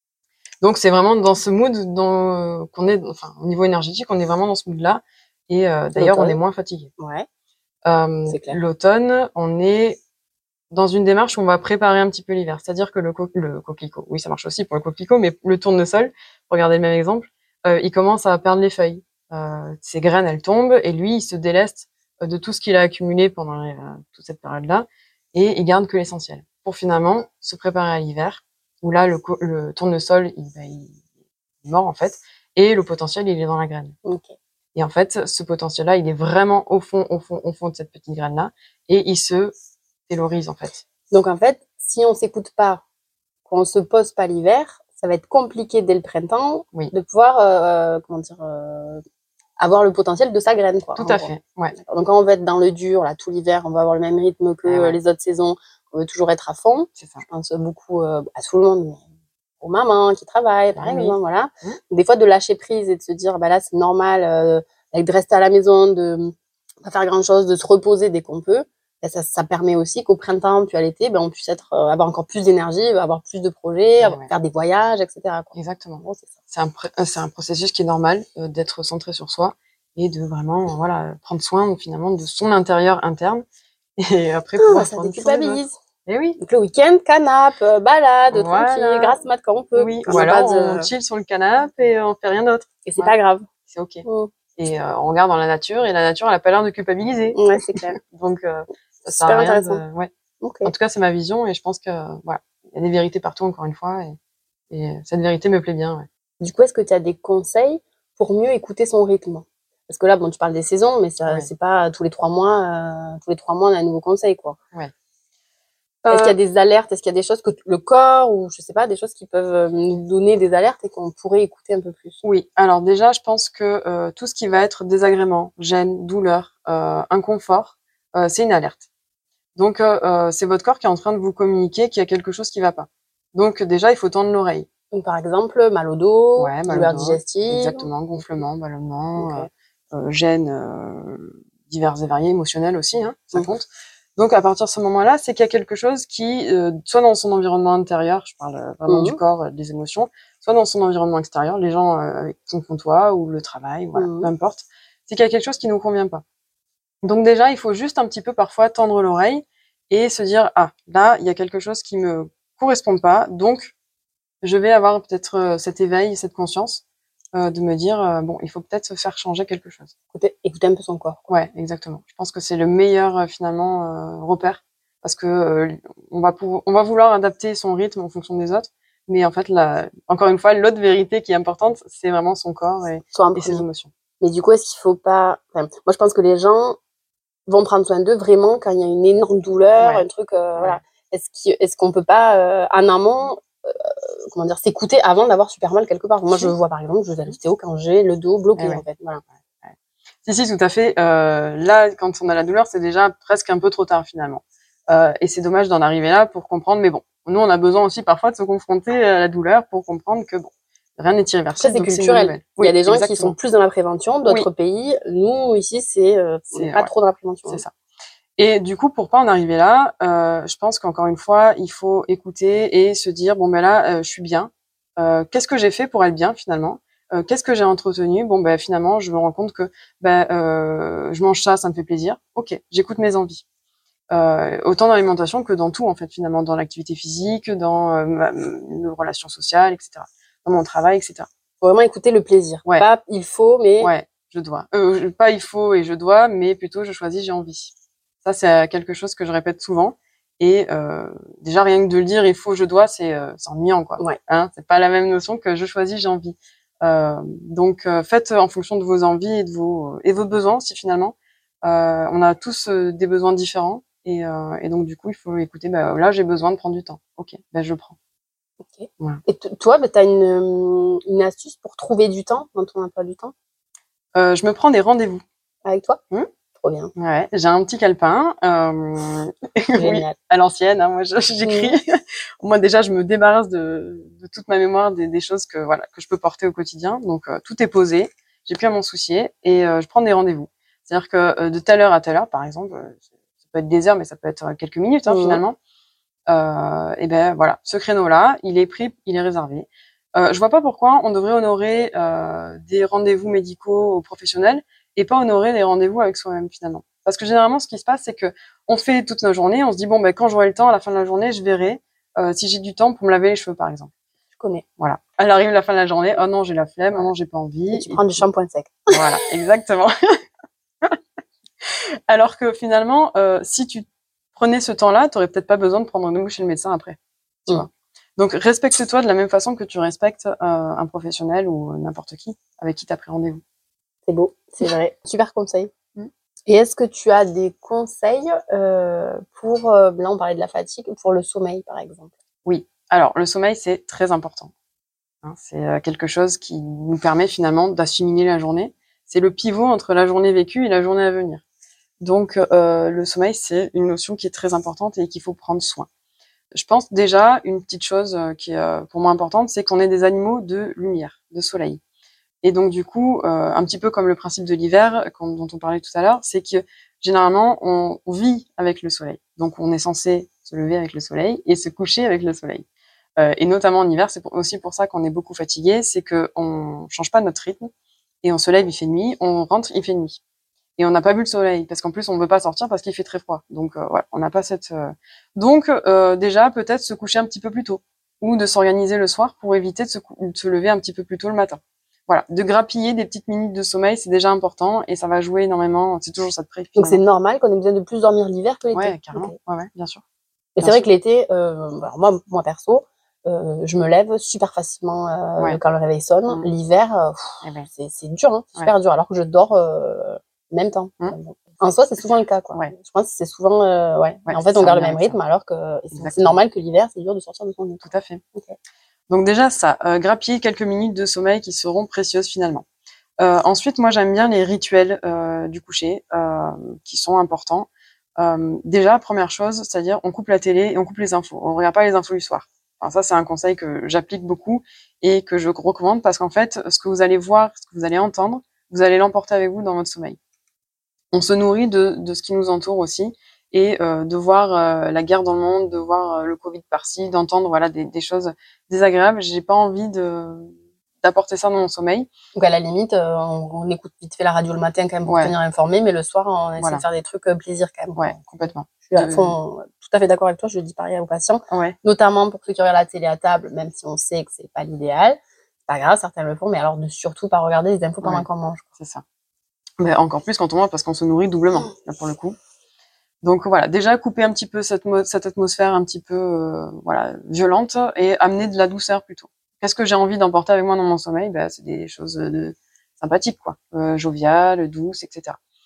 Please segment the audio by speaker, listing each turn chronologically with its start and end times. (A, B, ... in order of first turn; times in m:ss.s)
0:00.6-0:06.9 A
0:05.9-0:06.4 B
0:07.0-0:07.2 B
0:07.8-0:10.0 A
0:08.3-0:08.6 B
0:10.7-0:31.0 A
0:31.6-0:34.0 A
0:34.0-0:34.3 B
0:34.8-0:39.5 A
0:40.1-0:40.8 A
0:41.1-0:42.8 B
0:43.5-0:49.0 B
0:49.6-0:59.0 B
0:51.0-0:51.7 A
0:54.6-0:55.0 A
0:57.0-0:57.2 A
0:59.6-1:16.3 B
1:00.8-1:01.8 A
1:14.0-1:14.3 A
1:15.5-1:23.4 A
1:24.0-1:26.4 A
1:24.6-1:25.8 B
1:26.4-1:30.9 B
1:28.3-1:29.2 A
1:29.8-1:33.1 A
1:32.9-1:33.5 B
1:33.7-1:37.4 A
1:34.0-1:34.3 B
1:37.3-1:38.0 B
1:38.0-1:40.1 A
1:39.1-1:39.8 B
1:40.4-1:40.7 B
1:40.6-1:44.2 A
1:44.7-1:46.1 A
1:46.4-1:54.6 B
1:56.0-1:56.4 A
1:56.1-2:02.2 B
2:02.2-2:08.8 A
2:09.6-2:14.7 A
2:14.9-2:17.9 B
2:16.4-2:36.2 A
2:19.2-2:19.5 B
2:28.9-2:29.2 B
2:33.9-2:34.3 B
2:37.0-2:43.7 A
2:44.4-2:46.8 A
2:47.3-2:49.9 A
2:50.1-2:51.2 B
2:51.3-3:03.9 A
3:03.1-3:03.6 B
3:04.2-3:06.8 B
3:07.5-3:19.2 B
3:09.8-3:10.0 A
3:18.6-3:18.8 A
3:19.6-3:33.4 A
3:31.6-3:37.6 B
3:36.5-3:36.9 A
3:38.4-3:53.4 A
3:54.1-4:01.3 A
4:01.6-4:03.9 B
4:03.8-4:07.7 A
4:08.2-4:28.0 A
4:28.6-4:33.3 B
4:34.1-4:35.2 A
4:35.6-4:36.0 B
4:36.6-4:36.9 B
4:37.0-4:55.6 A
4:39.7-4:40.1 B
4:41.4-4:41.7 B
4:55.1-4:55.4 B
4:56.3-5:13.9 A
5:14.4-5:14.6 B
5:14.8-5:18.2 A
5:17.7-5:19.2 B
5:18.9-5:19.9 A
5:21.6-5:33.4 A
5:34.1-5:35.7 B
5:36.5-5:42.1 B
5:42.4-5:44.5 A
5:45.2-5:51.4 A
5:52.0-5:55.9 A
5:56.5-6:01.8 A
6:02.4-6:12.6 A
6:13.2-6:17.7 A
6:18.2-6:20.2 A
6:20.8-6:37.0 A
6:36.8-6:39.4 B
6:38.7-6:40.0 A
6:40.6-6:58.6 B
6:54.2-6:55.2 A
6:55.9-6:56.4 A
6:57.8-6:58.2 A
6:59.1-7:02.6 A
7:03.2-7:20.2 A
7:21.1-7:32.1 A
7:32.4-7:38.1 B
7:35.1-7:35.3 A
7:36.6-7:36.8 A
7:37.9-7:39.4 A
7:38.9-7:48.6 B
7:41.5-7:41.8 A
7:49.8-7:52.4 A
7:53.2-8:05.4 A